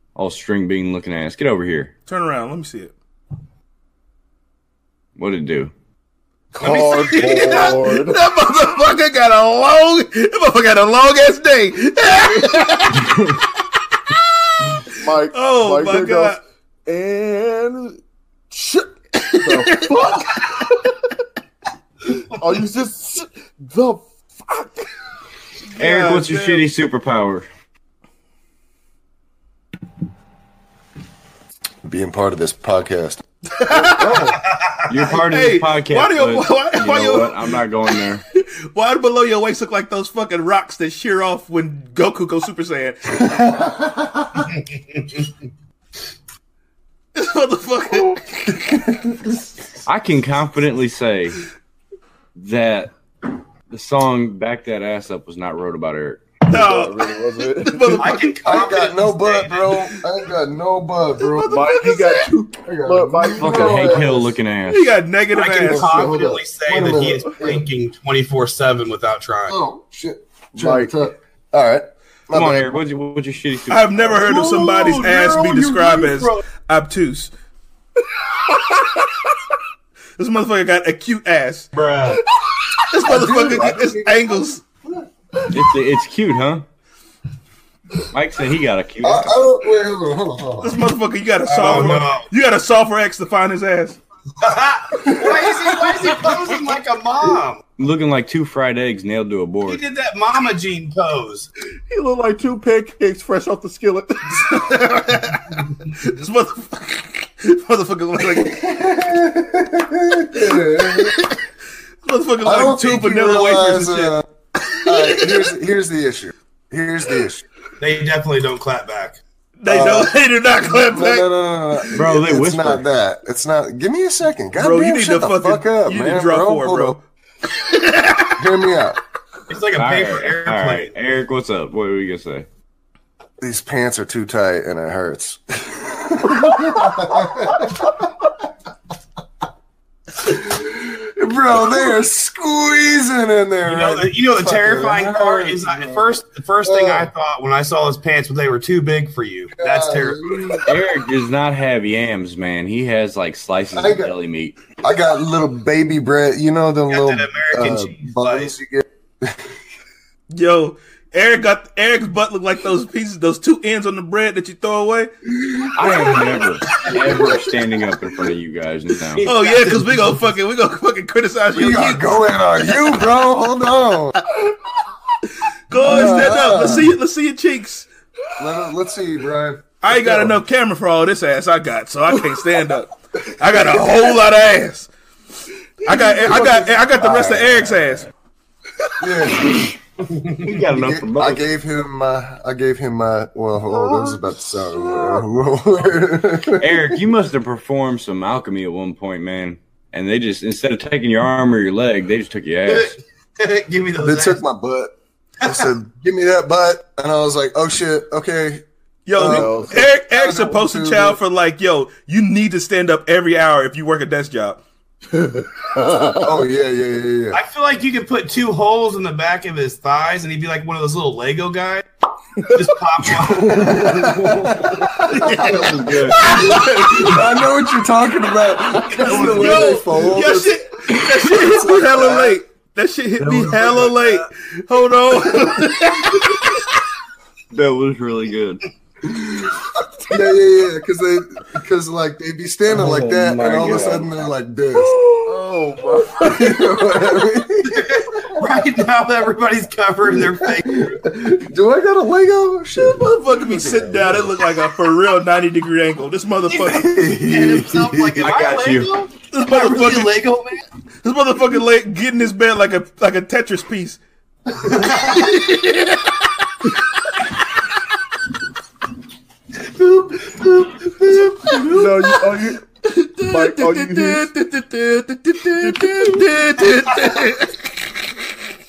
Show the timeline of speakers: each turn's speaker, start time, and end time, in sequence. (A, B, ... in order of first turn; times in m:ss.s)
0:00.2-0:01.9 A
0:02.1-0:02.9 B
0:05.2-0:05.7 A
0:06.5-0:08.2 C
0:06.6-0:07.8 D
0:06.6-0:13.4 B
0:12.2-0:12.6 C
0:14.1-0:16.4 B
0:14.9-0:18.0 C
0:18.5-0:21.0 C
0:19.2-0:19.9 B
0:22.1-0:24.9 C
0:25.7-0:26.7 B
0:25.8-0:27.5 A
0:31.8-0:33.2 E
0:33.5-0:34.4 B
0:33.8-0:34.4 C
0:34.3-0:35.2 D
0:34.9-0:38.2 A
0:35.3-0:37.6 B
0:38.3-0:43.3 B
0:43.2-0:44.5 E
0:44.5-0:45.3 D
0:47.1-0:48.2 B
0:48.0-0:49.4 E
0:49.8-0:51.4 A
0:52.4-0:52.9 A
0:53.7-0:56.3 A
0:56.5-0:58.0 C
0:56.5-0:57.0 B
0:57.6-0:58.7 B
0:58.0-0:59.8 D
0:58.4-1:01.8 E
1:01.2-1:02.3 B
1:01.4-1:04.1 C
1:02.6-1:04.4 E
1:03.4-1:04.9 A
1:04.6-1:06.1 B
1:05.3-1:09.6 D
1:05.6-1:07.6 E
1:09.5-1:12.7 E
1:10.6-1:10.9 C
1:12.3-1:14.3 A
1:13.7-1:17.3 B
1:14.2-1:16.4 D
1:18.5-1:19.2 C
1:20.2-1:21.7 B
1:21.7-1:22.2 D
1:22.9-1:24.6 B
1:23.0-1:25.0 E
1:25.5-1:26.6 A
1:28.1-1:29.4 A
1:29.0-1:30.8 E
1:30.6-1:34.0 B
1:31.4-1:32.3 D
1:34.4-1:37.6 D
1:35.1-1:35.9 E
1:37.8-1:39.8 A
1:39.6-1:41.5 D
1:41.9-1:44.6 C
1:44.3-1:48.6 B
1:48.4-1:51.2 E
1:50.9-1:51.4 B
1:52.0-1:54.2 B
1:52.4-1:54.2 E
1:54.7-1:55.3 B
1:54.8-1:57.4 E
1:57.8-1:59.2 D
1:59.6-2:01.3 B
1:59.6-2:07.0 E
2:01.9-2:02.8 A
2:04.6-2:08.4 B
2:08.4-2:09.0 E
2:09.5-2:10.9 D
2:09.7-2:12.5 A
2:13.4-2:18.0 E
2:20.2-2:26.0 E
2:23.6-2:30.6 D
2:26.6-2:27.1 E
2:29.5-2:30.7 E
2:30.6-2:34.6 A
2:33.7-2:34.1 E
2:34.8-2:39.4 E
2:36.9-2:38.5 D
2:40.3-2:45.1 B
2:45.4-2:46.0 E
2:45.7-2:49.3 A
2:49.2-2:50.2 D
2:49.2-2:52.1 B
2:51.5-2:54.2 E
2:55.7-2:57.9 B
2:55.8-2:56.9 E
2:58.4-3:00.3 E
2:59.8-3:04.9 B
3:05.8-3:08.1 B
3:06.2-3:07.8 E
3:09.0-3:09.7 E
3:10.0-3:10.6 D
3:10.4-3:11.4 A
3:10.6-3:17.0 E
3:13.7-3:14.2 C
3:14.8-3:15.1 C
3:16.6-3:23.0 A
3:22.7-3:24.4 D
3:24.0-3:28.6 E
3:29.0-3:34.6 B
3:29.2-3:31.2 E
3:29.2-3:29.8 C
3:35.1-3:36.2 C
3:36.1-3:37.4 E
3:37.3-3:41.8 D
3:42.4-3:44.7 D
3:43.0-3:50.6 E
3:45.1-3:46.5 B
3:45.4-3:46.4 A
3:48.9-3:56.7 B
3:49.4-3:49.7 A
3:51.3-3:52.4 E
3:53.2-3:53.9 A
3:57.5-3:58.6 A
3:59.1-4:05.0 E
4:02.7-4:04.1 A
4:05.0-4:06.5 C
4:06.1-4:08.3 E
4:07.7-4:10.8 D
4:10.1-4:14.3 E
4:13.0-4:16.9 B
4:16.5-4:20.6 D
4:16.6-4:18.4 E
4:18.2-4:18.9 A
4:19.3-4:20.2 B
4:21.0-4:24.0 B
4:24.5-4:25.5 D
4:25.1-4:26.2 B
4:29.6-4:31.9 D
4:31.7-4:32.6 C
4:32.8-4:37.6 B
4:33.2-4:34.4 C
4:36.6-4:37.2 D